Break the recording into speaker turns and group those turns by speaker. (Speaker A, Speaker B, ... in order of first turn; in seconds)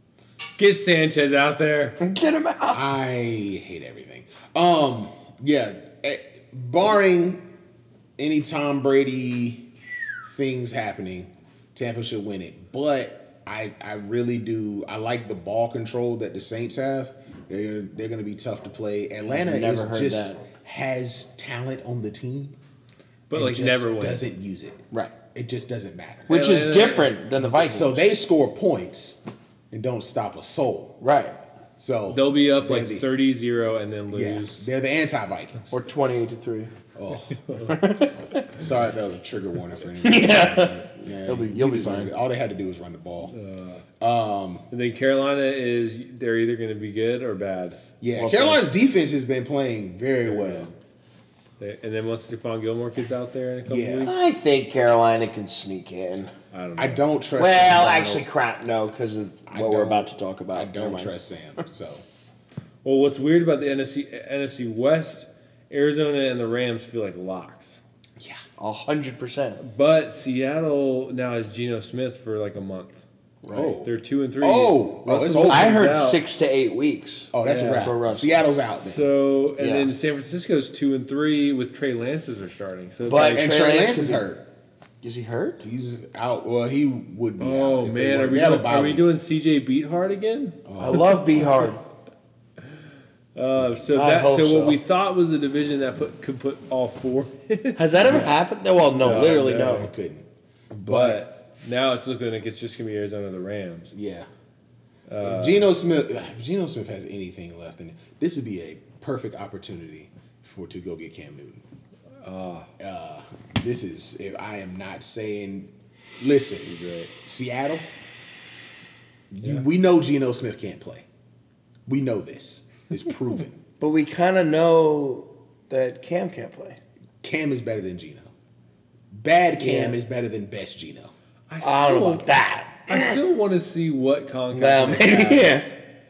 Speaker A: 0.6-2.0, 23.3-24.3, 26.3-27.2, 32.1-34.7, 37.4-37.8, 43.3-43.8, 44.7-47.8, 50.2-50.7, 51.6-54.1, 56.5-57.0, 62.8-67.8, 69.6-73.0, 73.8-76.2, 77.4-77.9, 78.8-83.5, 87.4-90.6, 93.3-98.4, 99.0-99.9, 100.7-103.9, 105.1-105.7, 112.2-112.7, 116.8-117.1, 131.5-132.3, 132.9-135.7
Speaker B: 2.0-2.8, 19.3-20.4, 26.3-28.1, 31.0-31.4, 35.7-36.7, 37.7-38.4, 40.0-42.1, 48.1-48.6, 54.0-56.3, 57.4-61.1, 68.6-69.6, 73.4-73.8, 75.5-78.4, 79.6-79.9, 83.0-84.2, 85.0-85.6, 90.8-91.8, 93.9-94.8, 97.8-99.9, 123.8-126.8, 129.6-130.0, 131.6-133.2, 134.5-135.7
Speaker C: 2.7-7.4, 8.2-9.7, 10.2-22.6, 23.3-26.3, 27.5-31.0, 31.8-33.1, 34.1-35.7, 37.0-37.8, 38.4-43.3, 44.0-44.6, 48.0-50.7, 53.6-54.1, 56.8-58.2, 59.5-62.0, 73.5-75.9, 77.3-79.1, 83.2-84.4, 85.6-89.1, 90.7-91.6, 99.0-100.2, 100.8-101.2, 103.9-104.3, 105.2-111.6, 112.8-117.8, 119.3-121.0, 121.8-123.5, 127.2-128.3, 129.1-131.1